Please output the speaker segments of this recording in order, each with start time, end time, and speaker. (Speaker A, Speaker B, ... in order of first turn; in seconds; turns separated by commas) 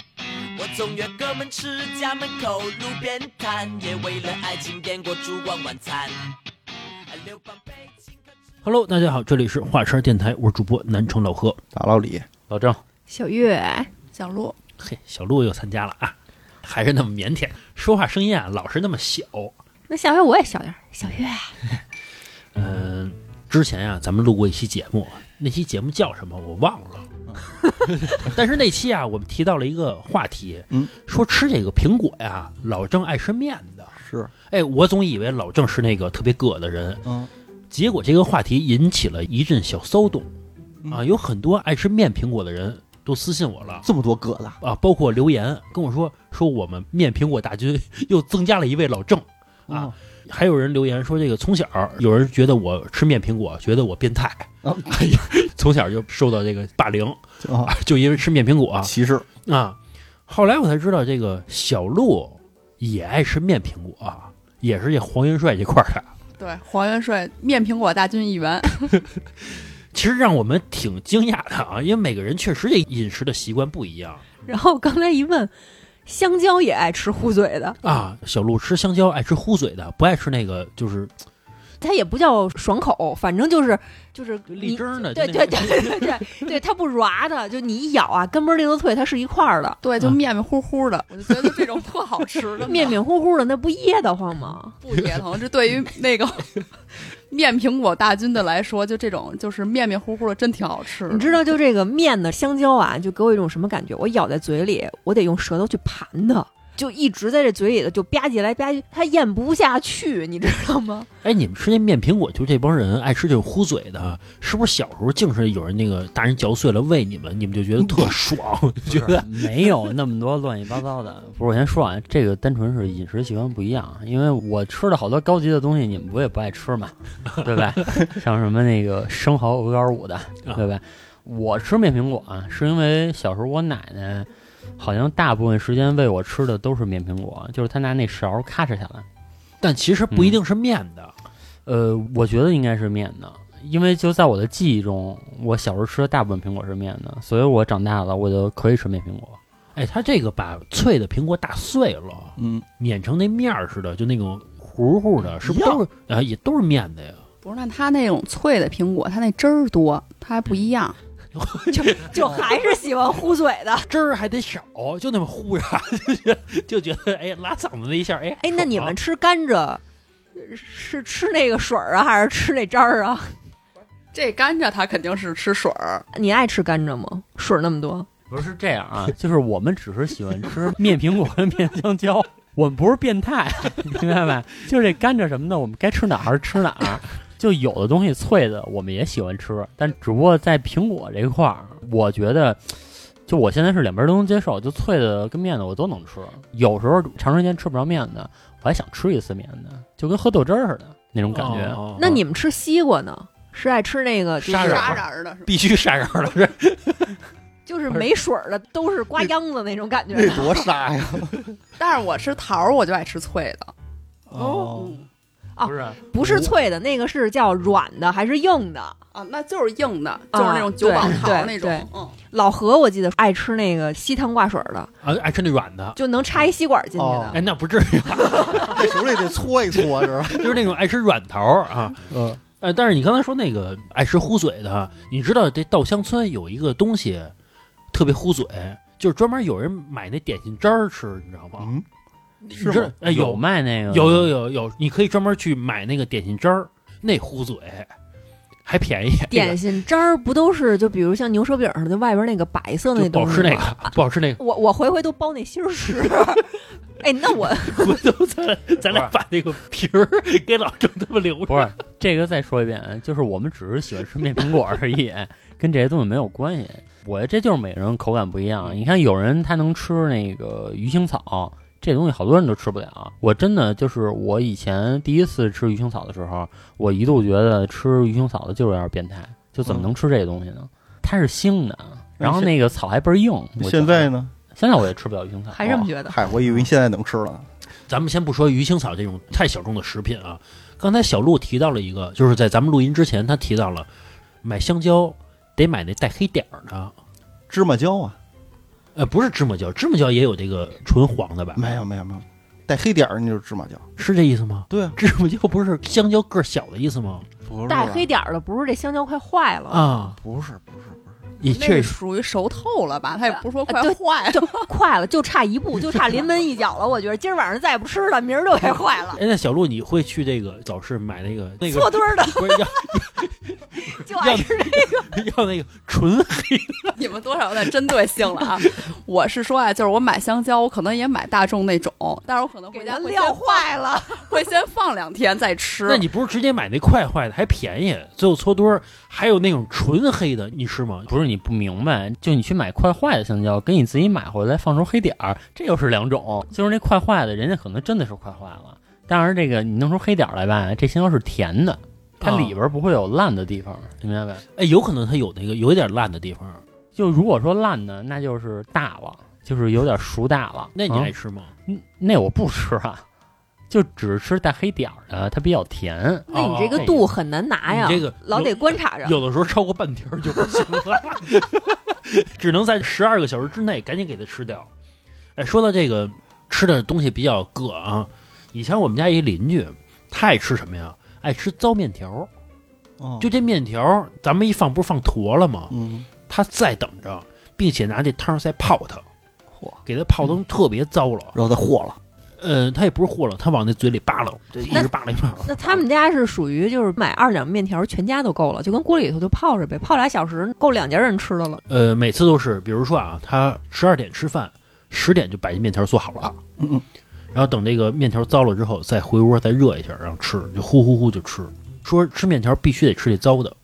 Speaker A: 0.5-6.3, Speaker A: 7.1-8.2, Speaker B: 8.6-11.6, Speaker C: 11.7-12.2, Speaker D: 12.5-12.8, Speaker E: 13.1-13.9, Speaker F: 14.1-14.5, Speaker B: 14.8-19.5, Speaker E: 19.9-21.5, Speaker B: 22.5-27.1, Speaker B: 27.9-33.9, Speaker C: 33.9-34.3, Speaker B: 34.5-37.0, Speaker C: 37.0-37.3, Speaker B: 37.7-40.3, Speaker B: 40.9-43.9, Speaker C: 43.8-44.6, Speaker B: 44.6-58.9, Speaker C: 49.7-49.9, Speaker C: 54.6-55.0, Speaker C: 57.4-57.7, Speaker C: 58.8-59.2, Speaker B: 59.4-66.1, Speaker F: 66.4-68.9, Speaker B: 69.4-74.4, Speaker E: 74.4-75.5, Speaker E: 76.0-77.8, Speaker B: 77.8-81.1, Speaker E: 81.8-89.8, Speaker B: 84.5-86.3, Speaker F: 89.8-93.0, Speaker E: 92.6-94.8, Speaker F: 94.8-96.5, Speaker F: 97.1-101.4, Speaker E: 101.1-111.1, Speaker B: 111.2-119.4, Speaker D: 118.9-139.0, Speaker B: 139.6-141.1, Speaker D: 140.1-140.4, Speaker D: 141.7-149.4, Speaker B: 149.8-157.2, Speaker C: 152.4-152.7, Speaker C: 155.4-155.8, Speaker F: 157.4-160.9, Speaker B: 161.3-162.6, Speaker E: 161.7-163.9, Speaker B: 163.9-168.9, Speaker E: 168.4-169.8, Speaker E: 170.3-173.4, Speaker F: 174.1-176.1, Speaker E: 176.1-178.1, Speaker D: 178.3-192.7, Speaker D: 193.2-202.0, Speaker B: 201.3-202.2, Speaker E: 202.0-205.0, Speaker B: 204.4-207.2, Speaker F: 204.4-205.5, Speaker E: 207.7-210.7, Speaker C: 210.1-211.4, Speaker F: 211.8-213.7, Speaker C: 214.3-215.0, Speaker E: 214.3-214.7, Speaker F: 214.7-215.0, Speaker E: 215.6-219.0, Speaker D: 215.6-216.0, Speaker B: 216.2-216.5, Speaker F: 219.1-222.1, Speaker E: 220.3-224.9, Speaker B: 225.0-226.0, Speaker E: 225.9-227.4, Speaker C: 226.9-227.4, Speaker B: 227.3-229.0, Speaker E: 228.2-228.8, Speaker C: 228.5-230.6, Speaker B: 229.8-237.3, Speaker C: 232.1-232.4, Speaker B: 237.9-241.7, Speaker C: 241.6-241.8, Speaker C: 242.5-242.9, Speaker B: 242.5-247.9, Speaker D: 243.0-244.3, Speaker B: 248.6-249.6, Speaker E: 249.3-258.0, Speaker B: 252.9-254.4, Speaker B: 257.7-261.7, Speaker D: 261.5-285.8, Speaker C: 282.2-282.5, Speaker C: 283.6-284.3, Speaker E: 285.5-286.2, Speaker C: 285.6-287.5, Speaker B: 287.9-293.9, Speaker B: 294.4-296.9, Speaker C: 297.5-298.2, Speaker B: 298.9-301.8, Speaker C: 301.6-303.9, Speaker B: 304.0-307.3, Speaker C: 304.7-305.0, Speaker C: 307.4-308.1, Speaker E: 307.7-309.9, Speaker B: 309.7-310.2, Speaker C: 310.1-311.1, Speaker B: 311.4-311.9, Speaker F: 311.4-314.7, Speaker E: 313.3-319.2, Speaker B: 319.1-327.0, Speaker E: 321.6-322.7, Speaker E: 323.9-325.1, Speaker F: 326.9-336.0, Speaker E: 332.7-334.3, Speaker B: 335.9-341.1, Speaker D: 341.1-354.4, Speaker B: 352.2-352.5, Speaker B: 354.5-356.6, Speaker D: 356.9-361.1, Speaker B: 360.7-361.5, Speaker D: 361.7-363.0, Speaker D: 363.7-366.9, Speaker B: 366.3-367.1, Speaker E: 366.3-369.2, Speaker B: 367.6-374.7, Speaker B: 375.4-382.3, Speaker C: 383.0-383.3, Speaker B: 383.2-385.7, Speaker C: 385.7-386.1, Speaker B: 386.3-389.0, Speaker B: 389.9-391.3, Speaker C: 391.3-392.0, Speaker B: 392.4-395.8, Speaker C: 394.5-394.8, Speaker E: 395.4-401.6, Speaker B: 401.7-406.4, Speaker C: 406.6-406.8, Speaker B: 407.3-413.6